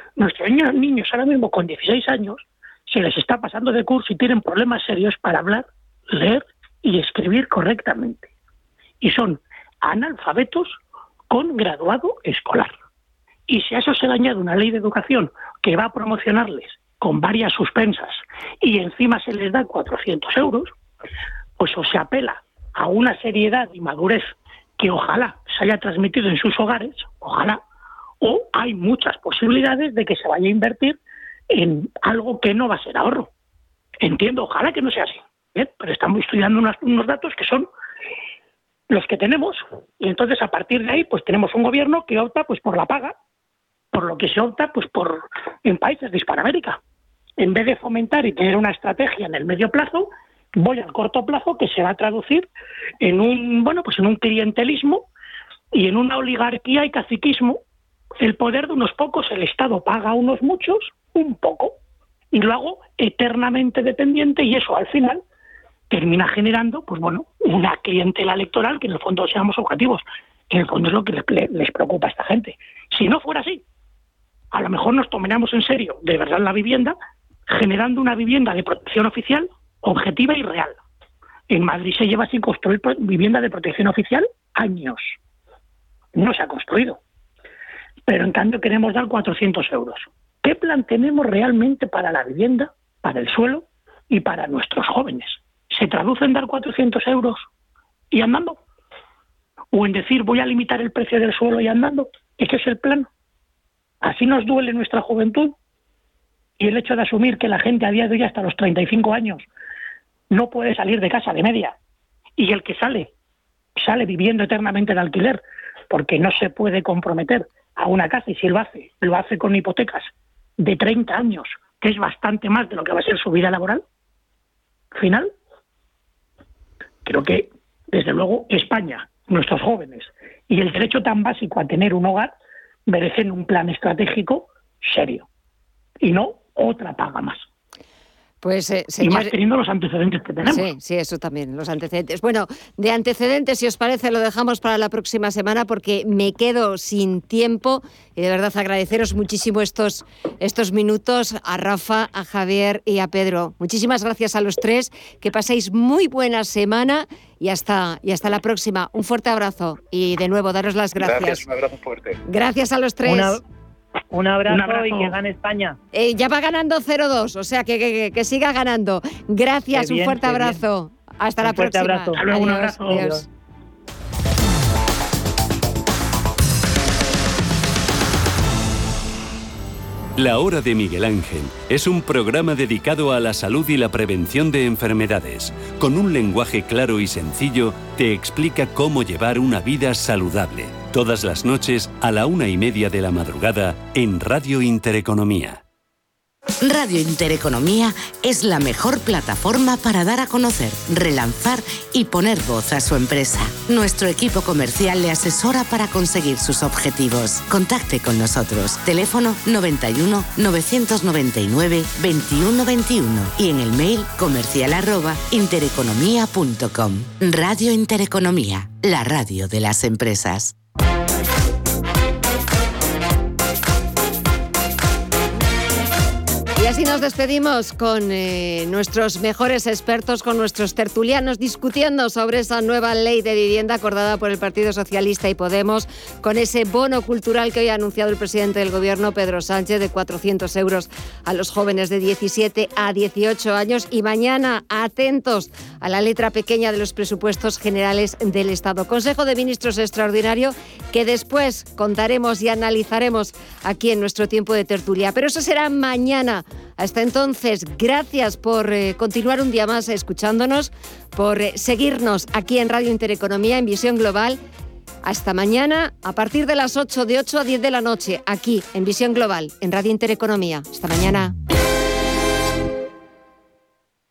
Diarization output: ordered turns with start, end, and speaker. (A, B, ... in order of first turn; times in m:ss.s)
0:00.2-0:08.3 A
0:09.0-0:10.8 A
0:11.3-0:12.7 A
0:13.5-0:20.7 A
0:21.6-0:27.6 A
0:28.2-0:31.0 A
0:31.5-0:33.3 A
0:34.0-0:37.7 A
0:38.9-0:43.2 A
0:43.9-0:46.8 A
0:47.4-0:52.5 A
0:53.0-0:55.1 A
0:55.7-0:57.6 A
0:58.2-1:01.8 A
1:02.3-1:05.2 A
1:05.9-1:13.6 A
1:14.5-1:17.0 A
1:17.5-1:20.8 A
1:21.5-1:25.2 A
1:26.1-1:27.0 A
1:28.1-1:37.5 A
1:38.1-1:38.6 A
1:39.7-1:43.1 A
1:44.0-1:45.5 A
1:46.6-1:49.5 A
1:50.3-1:51.7 A
1:52.4-1:53.1 A
1:53.8-2:03.8 A
2:04.9-2:05.3 A
2:07.0-2:12.3 A
2:12.9-2:15.2 A
2:16.0-2:17.4 A
2:18.4-2:19.3 B
2:19.0-2:20.7 A
2:20.5-2:41.5 B
2:42.2-2:43.4 B
2:43.0-2:43.4 C
2:44.1-2:45.8 C
2:44.5-2:45.2 A
2:45.9-2:53.2 B
2:49.7-2:50.6 C
2:51.4-2:52.2 C
2:52.1-2:53.2 A
2:52.8-2:53.2 C
3:00.2-3:15.6 D
3:16.6-3:40.5 E
3:46.6-4:24.4 B
4:25.0-4:31.3 B